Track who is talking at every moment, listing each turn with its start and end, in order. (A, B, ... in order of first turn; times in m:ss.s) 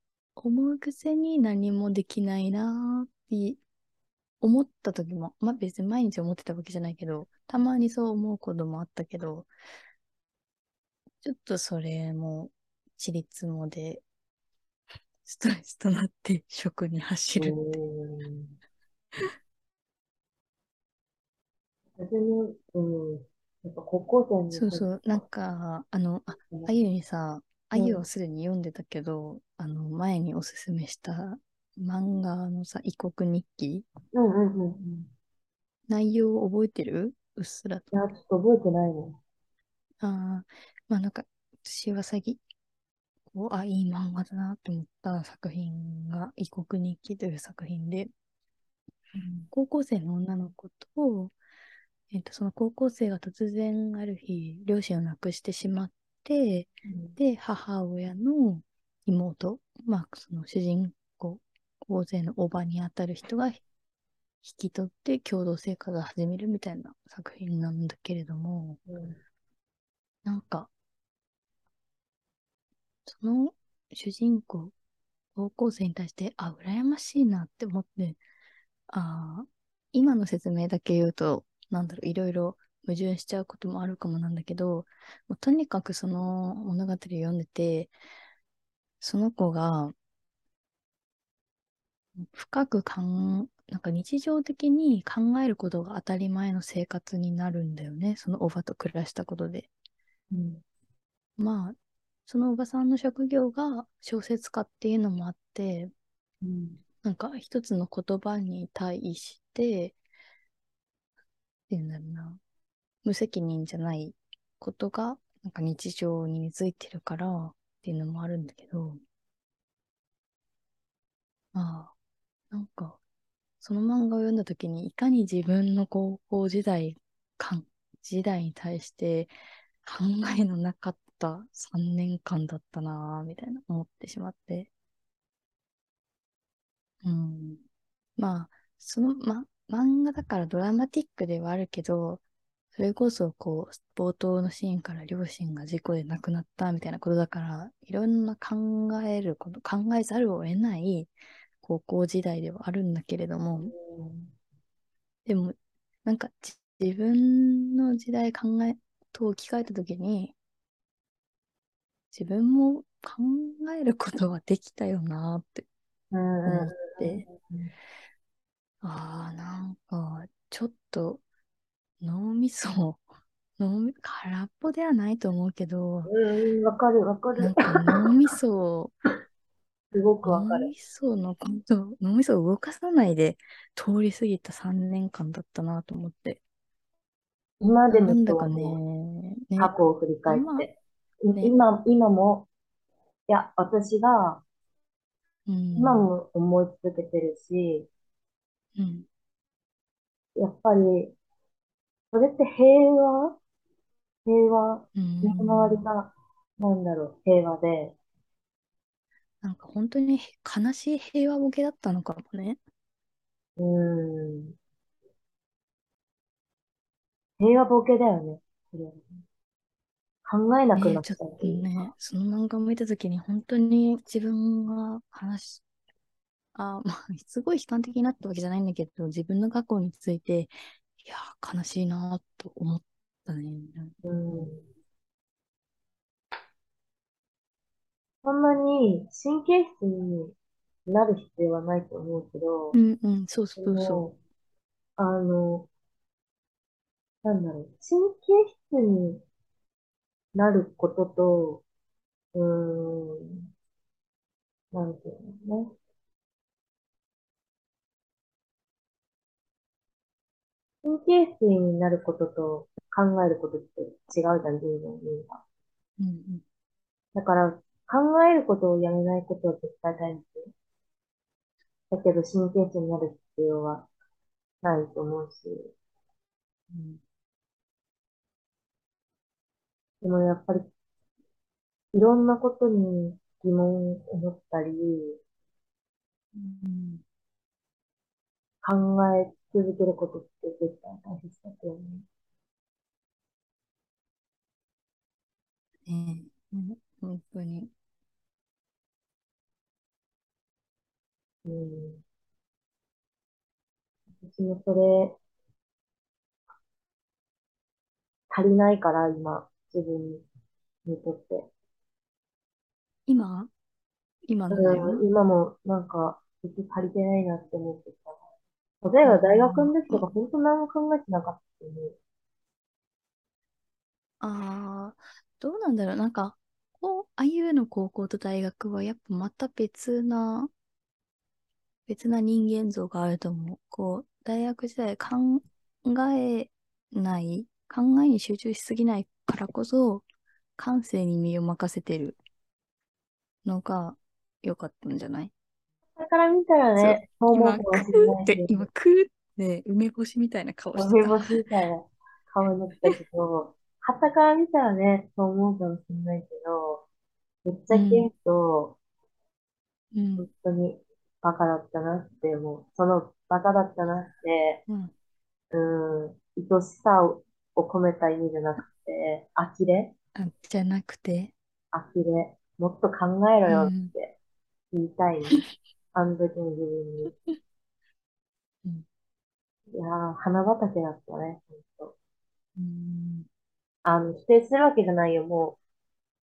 0:00.4-0:03.6 A
0:04.4-0:09.5 A
0:11.2-0:14.0 A
0:15.2-0:17.6 A
0:17.4-0:18.5 B
0:22.0-0:25.0 B
0:24.5-0:33.8 A
0:27.7-0:28.0 B
0:34.1-0:35.1 B
0:35.9-0:37.9 A
0:37.9-0:39.2 B
0:40.0-0:42.4 A
0:43.3-0:48.1 A
0:49.1-0:49.5 B
0:49.5-0:51.3 A
0:52.1-1:03.6 A
0:56.8-0:57.2 B
1:04.4-1:08.8 A
1:08.9-1:09.2 B
1:10.2-1:10.7 A
1:13.0-1:14.7 A
1:15.3-1:18.2 A
1:18.9-1:27.9 A
1:29.0-1:29.9 A
1:32.2-1:39.7 A
1:40.3-1:40.6 B
1:41.4-1:45.9 A
1:46.4-1:46.8 B
1:47.0-1:50.0 A
1:51.7-1:52.4 A
1:53.0-1:59.0 A
2:01.5-2:01.9 A
2:02.5-2:03.0 A
2:03.6-2:14.7 A
2:17.0-2:17.6 A
2:18.2-2:22.2 A
2:22.7-2:31.1 A
2:31.6-2:33.7 A
2:33.6-2:34.3 B
2:35.2-2:40.3 A
2:42.1-2:45.7 A
2:46.1-2:47.7 B
2:46.4-2:47.2 A
2:48.8-2:51.2 A
2:52.0-2:53.0 A
2:53.6-2:56.1 A
2:56.1-2:58.1 B
2:57.4-2:58.9 A
2:59.9-3:00.7 B
3:00.2-3:06.4 A
3:07.6-3:08.8 B
3:07.9-3:09.7 A
3:09.6-3:12.5 B
3:10.3-3:10.7 A
3:13.3-3:14.4 B
3:15.5-3:16.1 A
3:15.8-3:17.9 B
3:18.8-3:19.0 A
3:20.4-3:21.1 B
3:22.1-3:23.4 B
3:24.2-3:28.0 B
3:25.0-3:25.8 A
3:29.4-3:32.6 A
3:33.6-3:34.6 B
3:37.4-3:39.2 B
3:40.2-3:41.6 B
3:40.7-3:45.6 A
3:46.5-3:54.5 A
3:54.0-3:54.6 B
3:58.2-4:00.3 B
4:00.9-4:02.8 B
4:02.7-4:04.1 A
4:03.6-4:04.2 B
4:05.0-4:05.7 B
4:07.2-4:09.2 B
4:10.3-4:11.6 B
4:12.3-4:13.5 B
4:14.7-4:15.7 B
4:20.8-4:25.4 B
4:26.0-4:26.4 A
4:27.1-4:30.5 B
4:31.9-4:33.9 B
4:34.6-4:35.7 B
4:36.7-4:37.0 A
4:40.0-4:40.7 B
4:41.9-4:45.2 B
4:46.3-4:47.0 A
4:48.6-4:52.0 B
4:55.8-4:57.7 A
5:01.4-5:02.0 B
5:04.2-5:05.2 B
5:08.3-5:10.2 B
5:10.8-5:11.5 B
5:13.1-5:13.5 A
5:14.3-5:15.0 A
5:14.5-5:18.2 B
5:18.8-5:22.0 B
5:19.0-5:20.0 A
5:24.2-5:30.5 A
5:31.9-5:40.0 A
5:40.6-5:42.2 A
5:43.4-5:45.3 A
5:46.0-5:48.7 B
5:46.8-5:51.4 A
5:50.7-5:56.8 B
5:57.4-5:58.8 B
5:57.7-5:58.1 A
5:59.9-6:00.3 A
6:00.2-6:04.6 B
6:04.7-6:04.9 A
6:05.5-6:09.9 B
6:10.2-6:11.3 A
6:11.7-6:14.2 B
6:13.5-6:13.9 A
6:14.7-6:17.1 B
6:19.7-6:21.9 B
6:22.6-6:23.3 A
6:23.8-6:25.6 B